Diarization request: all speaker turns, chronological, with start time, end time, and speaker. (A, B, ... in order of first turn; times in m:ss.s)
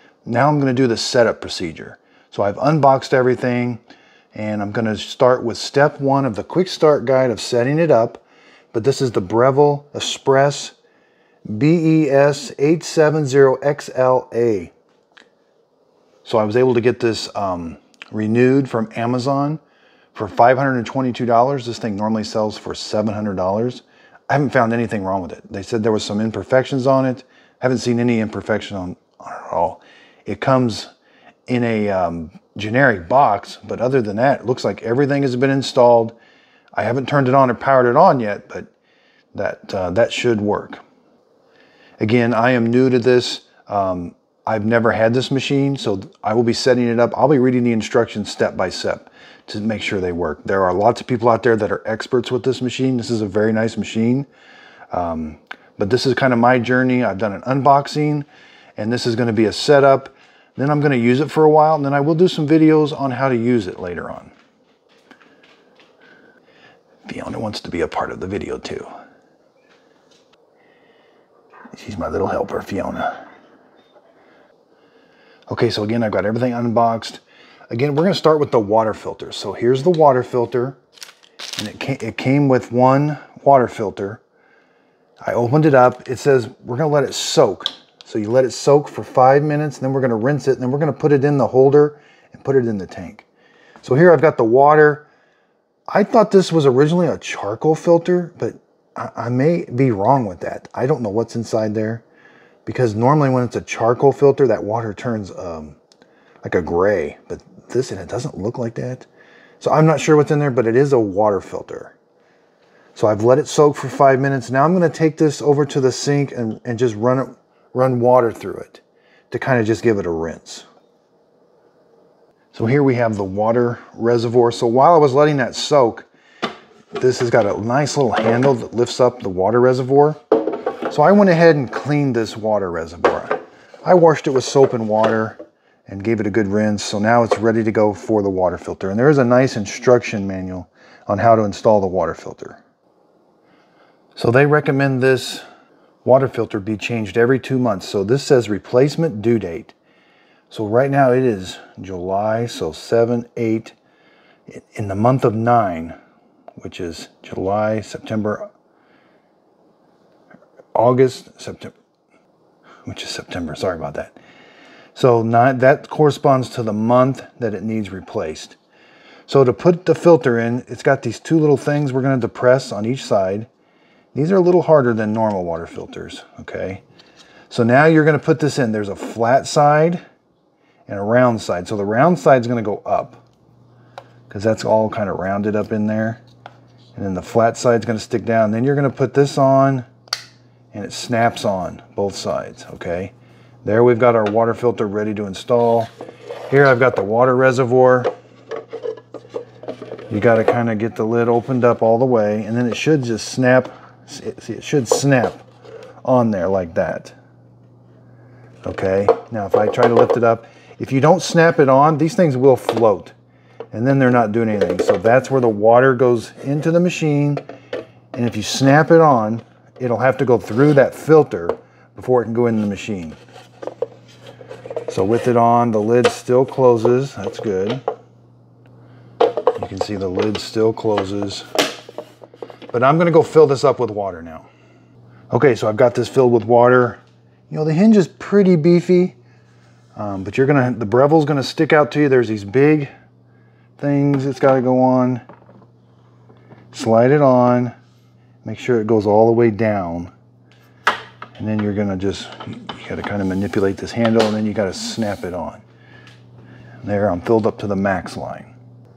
0:00.2-0:03.8 A
0:04.3-0:08.2 A
0:08.7-0:10.7 A
0:11.4-0:14.7 A
0:16.2-0:19.6 A
0:20.1-0:30.9 A
0:31.5-0:36.2 A
0:36.7-0:38.7 A
0:39.3-0:40.8 A
0:42.0-0:54.3 A
0:54.9-1:04.3 A
1:07.0-1:08.9 A
1:11.7-1:13.2 A
1:15.5-1:20.8 A
1:21.6-1:24.2 A
1:25.2-1:33.2 A
1:33.8-1:35.1 A
1:35.9-1:42.0 A
1:42.7-1:45.8 A
1:46.4-1:49.1 A
1:49.6-1:52.0 A
1:52.9-2:00.7 A
2:02.5-2:06.1 A
2:06.9-2:10.2 A
2:10.9-2:22.6 A
2:24.2-2:25.4 A
2:26.0-2:29.8 A
2:30.5-2:33.8 A
2:34.5-2:36.0 A
2:36.6-2:38.5 A
2:40.7-2:41.8 A
2:42.8-2:44.2 A
2:44.9-2:48.6 A
2:49.3-2:53.5 A
2:54.1-2:56.8 A
2:57.5-3:00.0 A
3:00.9-3:03.2 A
3:04.3-3:06.2 A
3:07.0-3:09.9 A
3:10.7-3:15.9 A
3:16.5-3:18.1 A
3:20.1-3:25.4 A
3:26.0-3:27.2 A
3:28.6-3:33.1 A
3:33.7-3:37.4 A
3:38.1-3:43.2 A
3:44.9-3:47.8 A
3:49.6-3:51.5 A
3:52.7-3:54.5 A
3:55.3-3:59.2 A
4:00.0-4:02.9 A
4:03.8-4:05.2 A
4:06.7-4:07.8 A
4:08.4-4:10.1 A
4:11.4-4:15.6 A
4:16.8-4:18.5 A